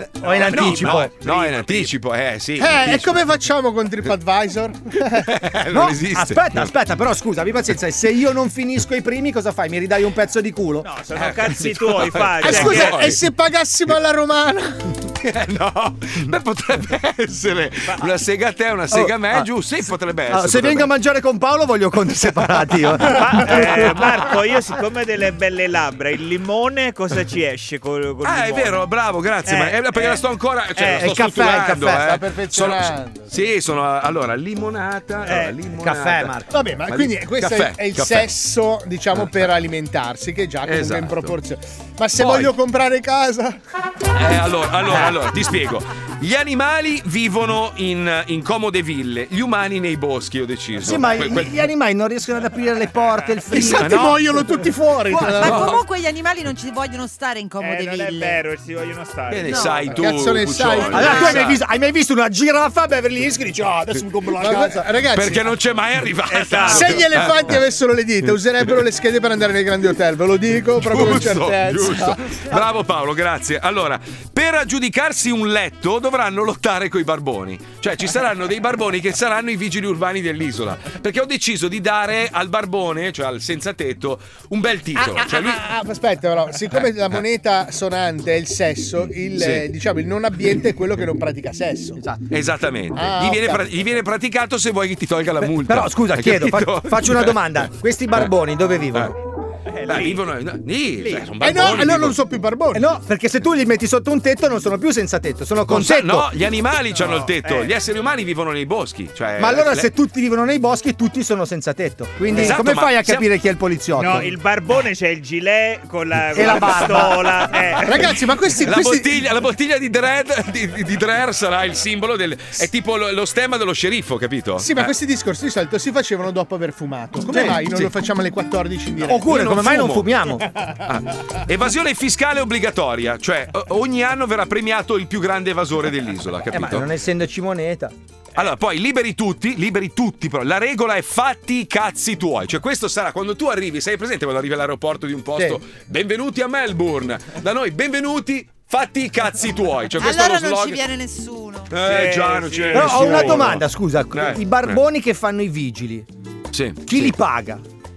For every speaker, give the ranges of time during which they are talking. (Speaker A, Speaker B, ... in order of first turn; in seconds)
Speaker A: 0.2-1.7, 5.7-10.9, 18.9-19.5, 20.3-24.1, 30.9-32.1, 35.8-36.5, 50.8-54.2, 55.1-55.6, 60.9-64.9, 95.4-99.1, 102.7-106.3, 109.4-114.3, 116.3-117.4, 127.3-127.7, 129.1-130.4, 136.5-137.9, 152.7-156.1, 156.8-157.6
Speaker B: 0.2-1.5, 10.8-13.1, 17.9-18.1, 23.1-28.9, 29.4-30.2, 30.7-31.2, 35.2-35.6, 57.6-60.1, 66.2-67.2, 99.7-100.3, 101.0-101.3, 106.9-107.8, 114.0-118.1, 151.8-153.3
Speaker C: 0.2-3.2, 5.3-6.7, 11.2-13.2, 15.2-20.9, 28.2-38.3, 40.6-41.3, 42.2-42.5, 44.1-51.6, 53.5-54.2, 55.4-55.8, 59.3-61.6, 65.1-67.6, 70.8-85.6, 89.3-89.7, 92.3-97.4, 99.9-102.2, 105.7-109.9, 112.3-113.3, 118.6-124.9, 129.2-130.2, 130.8-136.9, 138.3-150.8, 151.7-154.8, 156.5-157.2
Speaker D: 2.6-5.3, 12.4-14.8, 31.8-33.4, 36.5-43.6, 44.9-45.1, 53.5-55.8, 59.9-61.6, 64.3-65.5, 66.6-72.4, 84.9-92.0, 92.9-93.8, 101.4-102.9, 117.8-119.2, 124.6-129.5
Speaker E: 55.1-58.4, 59.5-59.8, 150.0-151.8